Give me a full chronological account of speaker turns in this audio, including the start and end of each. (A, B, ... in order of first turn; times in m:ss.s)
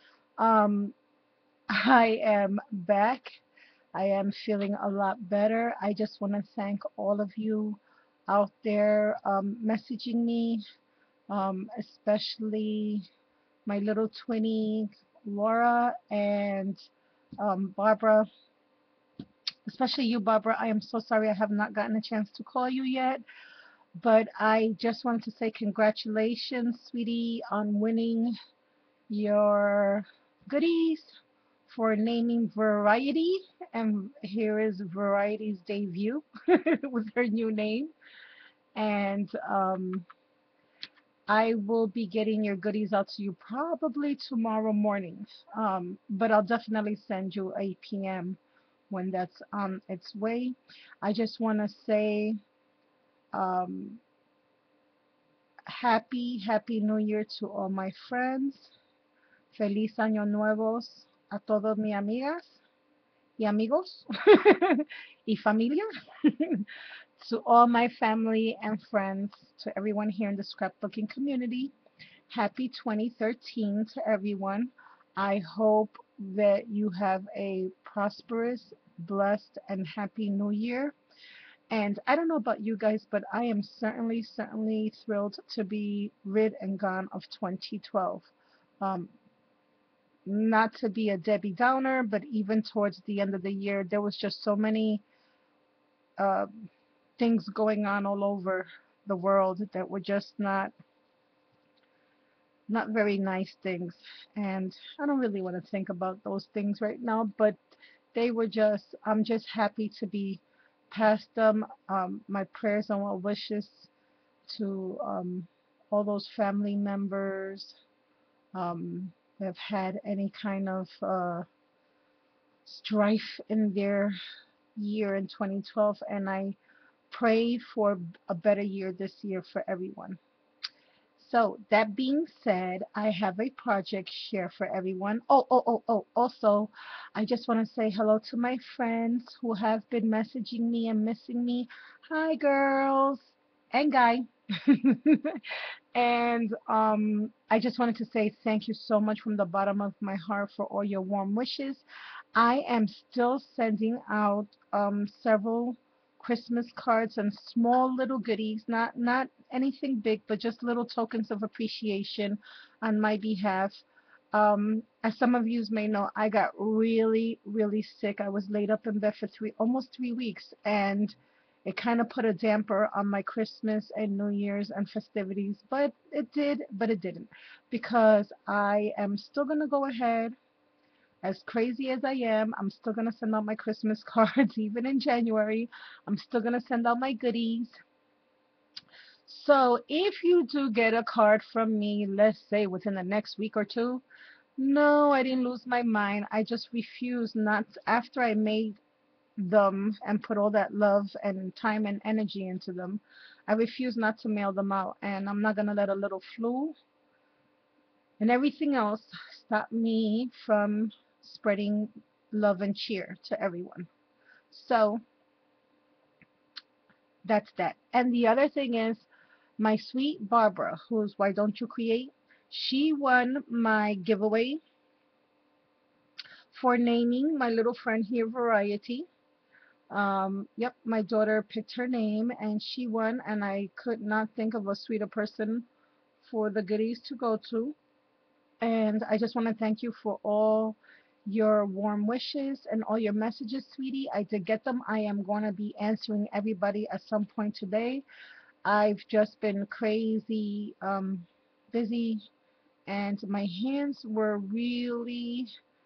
0:00.4-0:00.9 A
0:01.7-0:03.4 A
0:03.9-0:10.6 A
0:11.3-0:13.1 A
0:13.6-0:16.8 A
0:17.4-0:18.3 A
0:19.6-0:23.2 A
0:24.0-0:28.3 A
0:29.1-0:31.1 A
0:31.7-0:37.9 A
0:38.7-0:40.0 A
0:41.3-0:48.4 A
0:48.9-0:52.4 A
0:53.3-0:54.0 A
0:55.7-0:58.7 A
0:59.5-1:02.6 A
1:03.4-1:11.7 A
1:12.3-1:20.9 A
1:21.7-1:29.1 A
1:30.2-1:35.0 A
1:36.2-1:40.7 A
1:42.7-1:53.9 A
1:54.5-1:57.8 A
1:58.5-2:01.4 A
2:02.6-2:04.2 A
2:04.8-2:06.6 A
2:07.1-2:10.2 A
2:11.2-3:00.4 A
3:01.2-3:07.8 A
3:09.2-3:14.0 A
3:14.6-3:18.8 A
3:19.4-3:26.8 A
3:28.2-3:33.9 A
3:34.5-3:35.0 A
3:37.2-3:39.1 A
3:39.6-3:44.6 A
3:46.5-3:49.1 A
3:49.9-3:55.6 A
3:56.2-3:57.7 A
3:58.6-4:08.0 A
4:08.6-4:12.2 A
4:12.9-4:15.5 A